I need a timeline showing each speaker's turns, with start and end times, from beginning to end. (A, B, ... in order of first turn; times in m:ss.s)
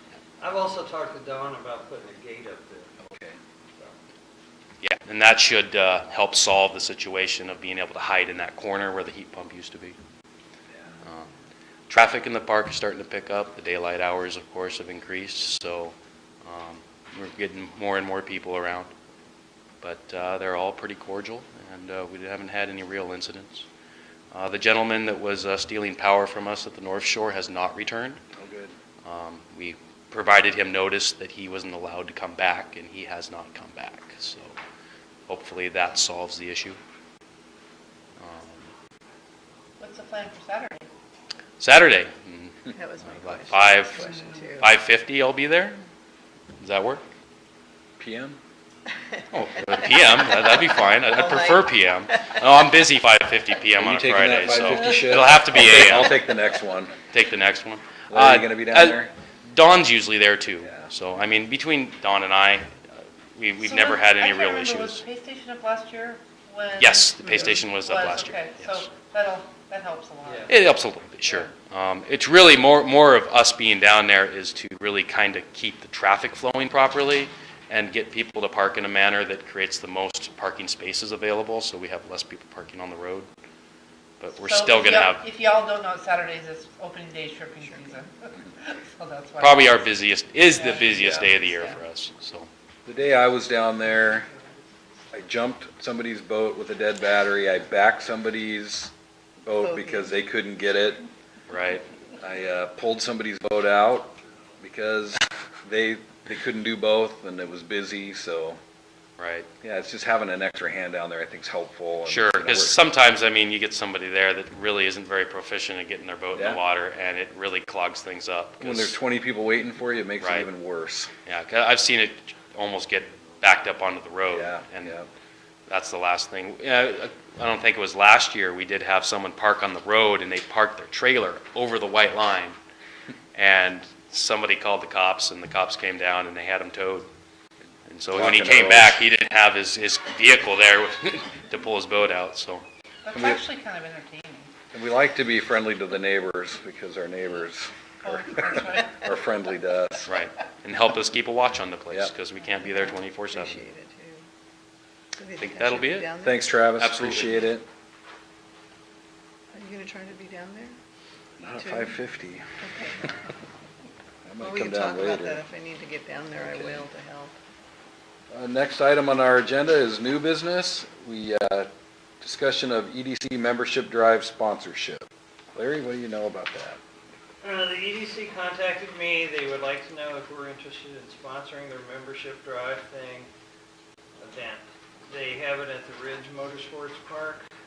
0:00.4-0:02.9 A
0:03.0-0:03.4 B
0:04.8-0:10.0 C
0:11.0-0:11.3 C
0:11.9-0:18.9 C
0:19.8-0:23.7 C
0:24.3-0:28.2 C
0:28.3-0:28.8 B
0:29.0-0:34.5 C
0:35.3-0:36.8 C
0:38.2-0:38.7 C
0:39.8-0:40.9 D
0:41.6-0:45.8 C
0:42.7-0:44.7 E
0:46.6-0:47.0 C
0:48.0-0:48.4 B
0:49.1-0:51.7 E
0:49.3-0:56.2 C
0:53.7-0:56.9 B
0:57.1-1:02.8 C
0:58.1-0:59.1 B
1:03.3-1:05.0 C
1:03.6-1:10.5 D
1:06.8-1:08.9 C
1:10.2-1:10.5 A
1:10.5-1:23.3 C
1:24.2-1:25.2 C
1:24.4-1:29.9 D
1:29.4-1:32.5 C
1:30.5-1:31.8 D
1:30.9-1:31.3 B
1:32.8-1:34.3 B
1:35.1-1:41.0 B
1:39.6-1:40.1 E
1:41.5-1:41.8 C
1:42.2-1:48.6 B
1:49.2-1:49.5 C
1:49.6-1:52.8 B
1:52.0-1:59.0 C
1:56.3-1:56.6 B
1:58.6-2:01.1 B
2:00.2-2:00.5 C
2:01.2-2:04.9 C
2:04.3-2:05.1 B
2:05.7-2:12.6 C
2:13.3-2:17.1 C
2:17.9-2:22.6 C
2:18.1-2:19.0 B
2:23.0-2:24.5 D
2:23.1-2:23.4 B
2:24.7-2:30.1 B
2:28.0-2:29.1 D
2:30.1-2:33.6 C
2:33.3-2:34.2 E
2:35.2-2:36.4 E
2:35.4-2:36.1 C
2:36.2-2:37.6 B
2:36.7-2:37.5 C
2:39.5-2:40.7 E
2:41.4-2:42.5 B
2:41.6-2:41.9 E
2:42.6-2:43.0 E
2:44.2-2:45.4 B
2:44.4-2:47.4 E
2:46.4-2:46.9 B
2:48.3-2:51.7 B
2:52.2-2:56.8 B
2:57.4-3:03.3 A
3:04.2-3:07.4 A